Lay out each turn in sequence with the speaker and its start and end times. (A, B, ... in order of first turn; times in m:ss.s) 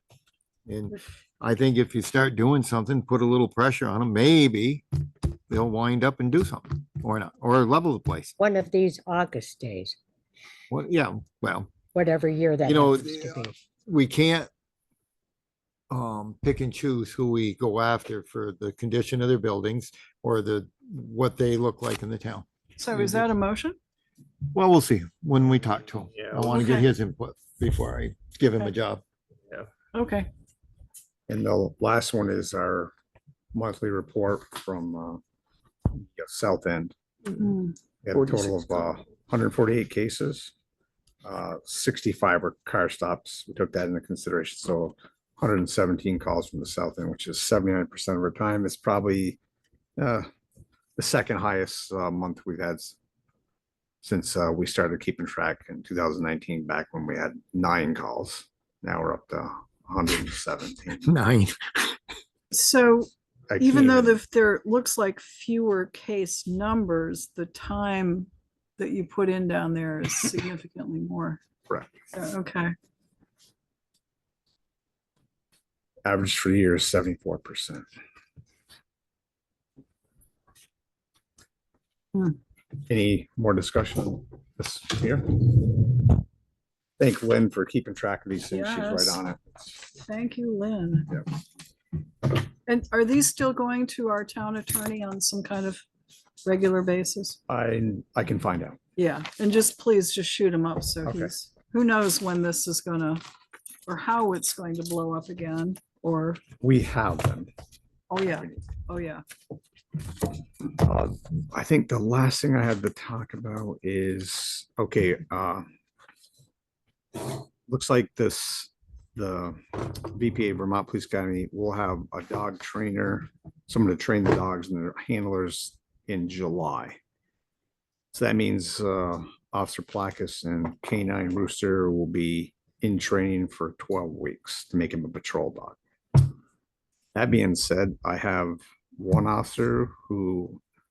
0:00.6-0:04.8 A
0:05.5-0:08.4 A
0:08.4-0:09.9 B
0:10.7-0:11.8 A
0:12.0-0:13.4 B
0:12.6-0:14.5 A
0:15.9-0:22.4 A
0:22.8-0:23.8 C
0:24.5-0:29.0 A
0:26.4-0:26.9 C
0:29.9-0:30.3 C
0:31.3-0:32.9 D
0:33.5-0:35.2 D
0:35.9-0:36.9 D
0:37.3-0:37.8 C
0:38.0-0:40.5 D
0:41.2-0:49.4 D
0:50.0-0:50.3 D
0:51.0-0:53.0 D
0:54.0-1:01.1 D
1:01.0-1:01.9 A
1:02.5-1:03.1 C
1:03.5-1:04.2 D
1:03.6-1:11.4 C
1:12.1-1:12.7 C
1:16.0-1:17.8 D
1:22.8-1:26.1 D
1:27.0-1:29.7 D
1:28.5-1:29.2 C
1:29.9-1:31.2 C
1:32.6-1:35.8 C
1:36.4-1:37.4 C
1:37.5-1:38.8 D
1:39.0-1:43.2 C
1:41.0-1:41.3 D
1:43.8-1:46.4 C
1:46.6-1:47.5 D
1:48.1-1:49.2 C
1:48.2-1:48.6 D
1:50.7-1:55.6 D
1:57.2-2:07.0 D
2:08.1-2:15.8 D
2:17.1-2:20.6 D